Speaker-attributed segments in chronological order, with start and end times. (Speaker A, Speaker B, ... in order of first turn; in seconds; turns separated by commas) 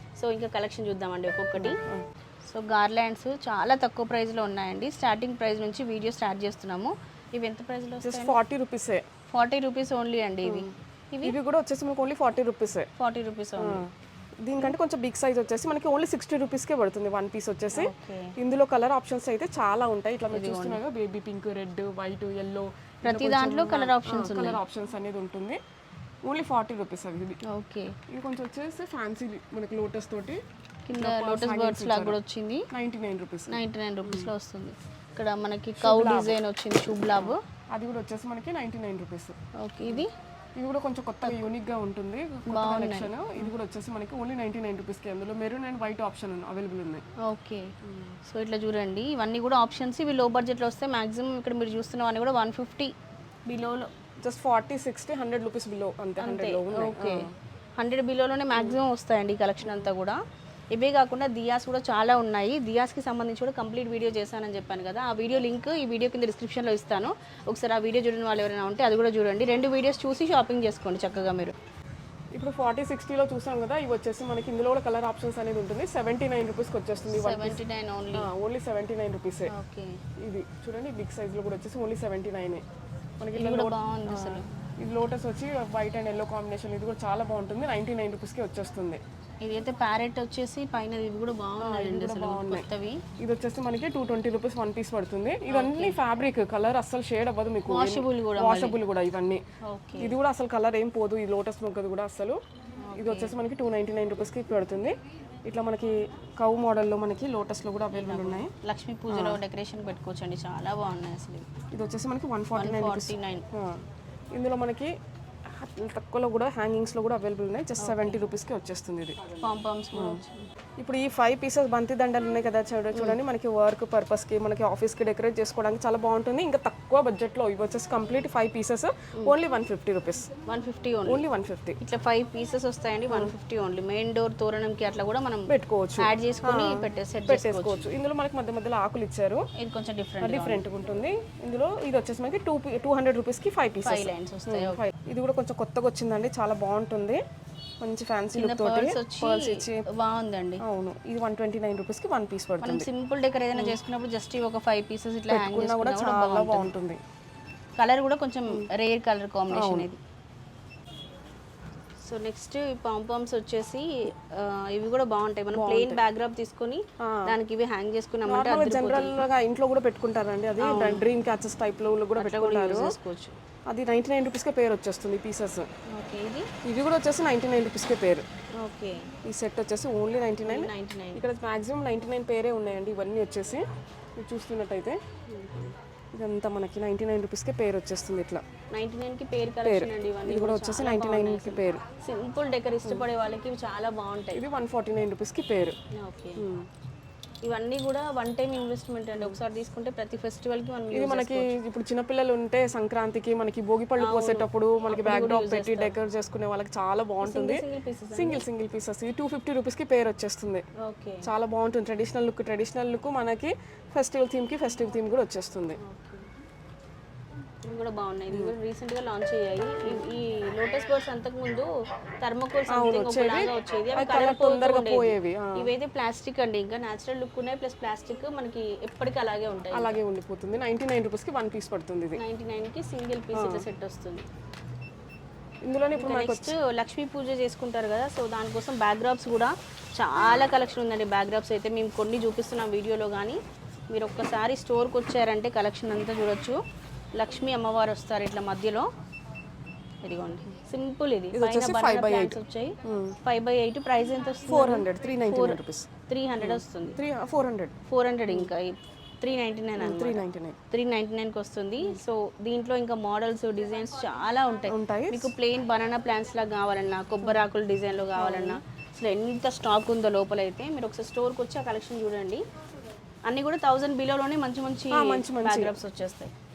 Speaker A: 0.2-1.8, Speaker B: 1.6-2.1, Speaker A: 2.5-8.3, Speaker B: 8.0-9.0, Speaker A: 9.3-11.3, Speaker B: 10.4-12.9, Speaker A: 13.0-13.8, Speaker B: 13.6-13.9, Speaker B: 14.4-25.6, Speaker A: 17.8-18.4, Speaker A: 20.3-20.8, Speaker A: 23.1-24.6, Speaker B: 26.2-27.4, Speaker A: 27.4-28.0, Speaker B: 28.1-30.4, Speaker A: 30.9-32.7, Speaker B: 30.9-32.2, Speaker B: 32.7-34.3, Speaker A: 33.5-37.4, Speaker B: 35.8-36.4, Speaker B: 37.1-39.4, Speaker A: 39.6-40.1, Speaker B: 40.6-47.0, Speaker A: 42.5-43.5, Speaker A: 47.2-52.9, Speaker A: 53.5-53.9, Speaker B: 54.2-57.3, Speaker A: 56.2-60.2, Speaker B: 58.5-58.8, Speaker A: 60.7-71.5, Speaker B: 72.3-77.6, Speaker A: 77.1-78.3, Speaker B: 78.2-79.5, Speaker A: 79.5-80.0, Speaker B: 80.2-82.6, Speaker B: 83.2-89.0, Speaker A: 83.4-84.5, Speaker A: 89.4-93.0, Speaker B: 91.6-92.7, Speaker B: 93.2-99.4, Speaker A: 95.5-96.0, Speaker A: 97.7-98.8, Speaker A: 99.6-100.2, Speaker B: 100.0-102.4, Speaker A: 102.8-103.3, Speaker B: 102.9-108.5, Speaker A: 107.9-111.5, Speaker B: 109.1-109.4, Speaker B: 111.7-114.9, Speaker A: 112.5-113.5, Speaker B: 115.5-119.2, Speaker A: 117.8-118.2, Speaker A: 119.4-120.5, Speaker B: 119.9-120.2, Speaker B: 120.8-130.3, Speaker A: 130.5-131.2, Speaker B: 131.1-131.8, Speaker A: 131.8-137.9, Speaker B: 135.5-139.5, Speaker A: 139.6-140.6, Speaker B: 140.2-147.2, Speaker A: 143.8-144.8, Speaker B: 147.8-149.9, Speaker A: 148.4-150.6, Speaker B: 150.6-152.9, Speaker A: 152.6-156.7, Speaker B: 155.3-157.0, Speaker A: 157.8-160.0, Speaker B: 159.5-159.9, Speaker A: 162.0-169.2, Speaker B: 165.5-166.0, Speaker B: 167.0-167.3, Speaker B: 168.3-172.9, Speaker A: 170.6-171.1, Speaker A: 172.2-173.4, Speaker B: 173.7-175.7, Speaker A: 175.9-176.5, Speaker B: 176.6-178.3, Speaker A: 178.6-179.1, Speaker B: 179.2-183.7, Speaker A: 180.5-181.2, Speaker B: 184.2-185.0, Speaker A: 185.3-185.7, Speaker B: 186.1-188.4, Speaker A: 188.7-194.4, Speaker B: 189.6-191.8, Speaker B: 194.3-195.8, Speaker A: 195.9-196.4, Speaker B: 196.4-196.7, Speaker A: 197.4-201.5, Speaker B: 200.9-210.6, Speaker A: 204.0-206.0, Speaker A: 207.2-208.4, Speaker A: 210.8-211.3, Speaker B: 211.2-215.8, Speaker A: 215.8-216.3, Speaker A: 217.6-221.7, Speaker A: 222.2-230.0, Speaker B: 222.7-225.7, Speaker B: 229.7-232.2, Speaker A: 232.2-234.3, Speaker B: 233.3-233.7, Speaker B: 235.6-236.6, Speaker A: 235.9-243.4, Speaker A: 243.9-246.6, Speaker A: 247.1-248.9, Speaker A: 250.0-257.0, Speaker B: 251.3-253.2, Speaker B: 254.4-255.9, Speaker B: 256.4-257.7, Speaker A: 257.9-272.4, Speaker B: 259.8-260.6, Speaker B: 264.7-265.3, Speaker B: 268.1-268.6, Speaker A: 273.3-276.3, Speaker B: 274.9-275.8